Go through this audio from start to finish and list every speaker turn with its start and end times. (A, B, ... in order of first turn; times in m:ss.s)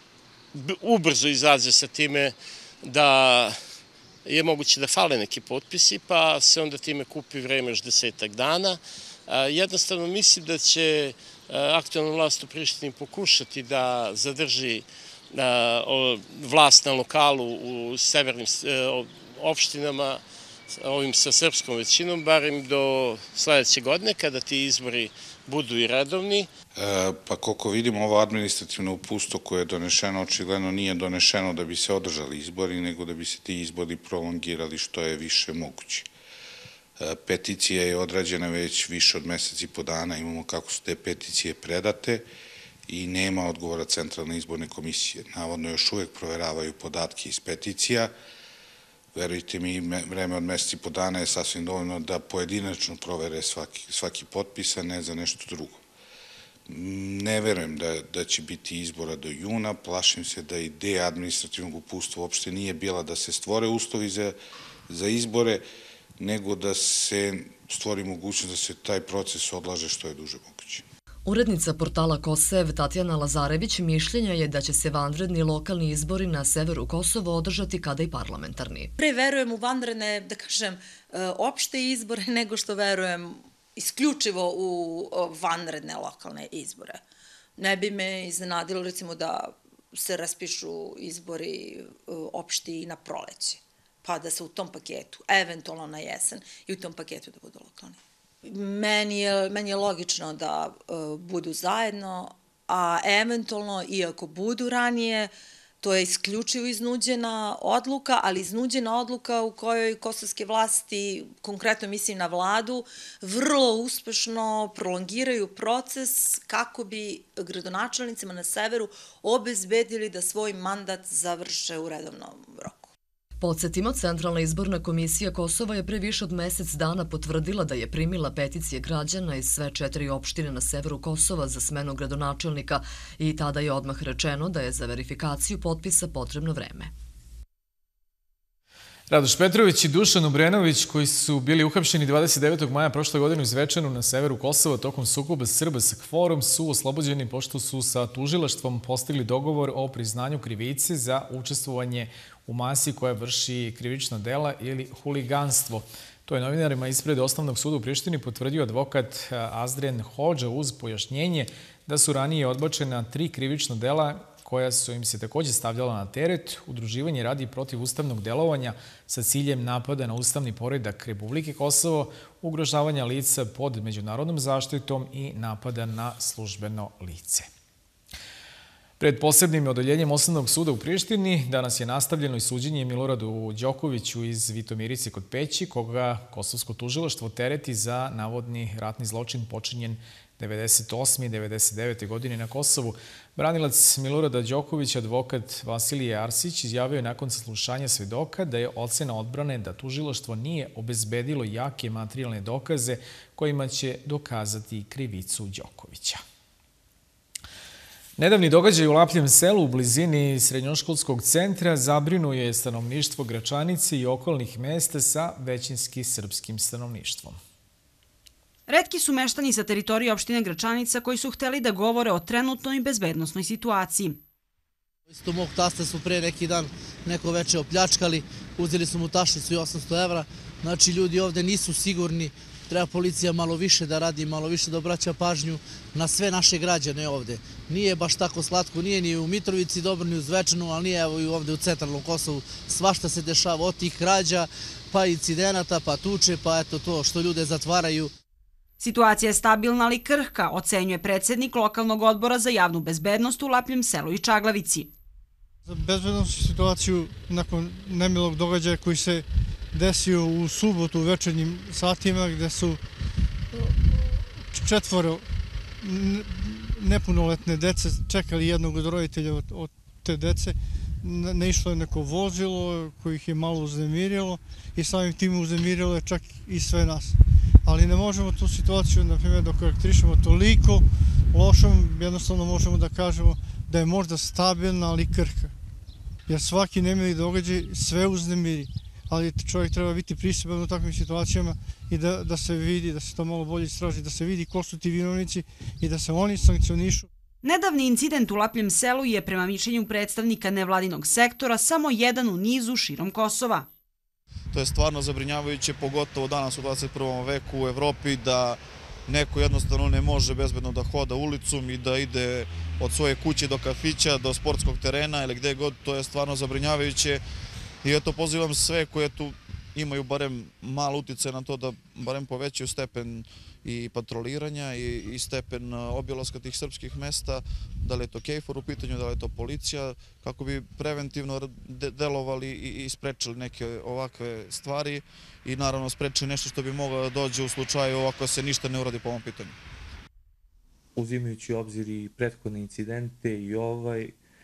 0:00.5-0:03.6 A
0:04.2-0:26.5 A
0:26.8-0:36.1 B
0:37.0-0:42.3 B
0:42.9-0:48.1 B
0:49.1-0:55.8 B
0:56.7-1:04.4 B
1:04.9-1:05.6 B
1:06.2-1:10.8 B
1:11.2-1:18.9 C
1:19.0-1:27.0 D
1:27.6-2:02.9 D
2:03.4-2:16.9 C
2:19.1-2:57.5 E
2:59.0-3:26.2 E
3:28.2-3:37.4 E
3:38.7-3:44.2 F
3:45.1-4:08.1 G
4:08.8-4:14.9 F
4:15.6-4:22.8 H
4:24.5-4:25.2 H
4:25.8-4:45.5 H
4:46.3-4:57.1 H
4:57.4-5:03.7 F
5:04.5-5:17.2 I
5:17.8-5:39.5 I
5:41.0-5:44.1 J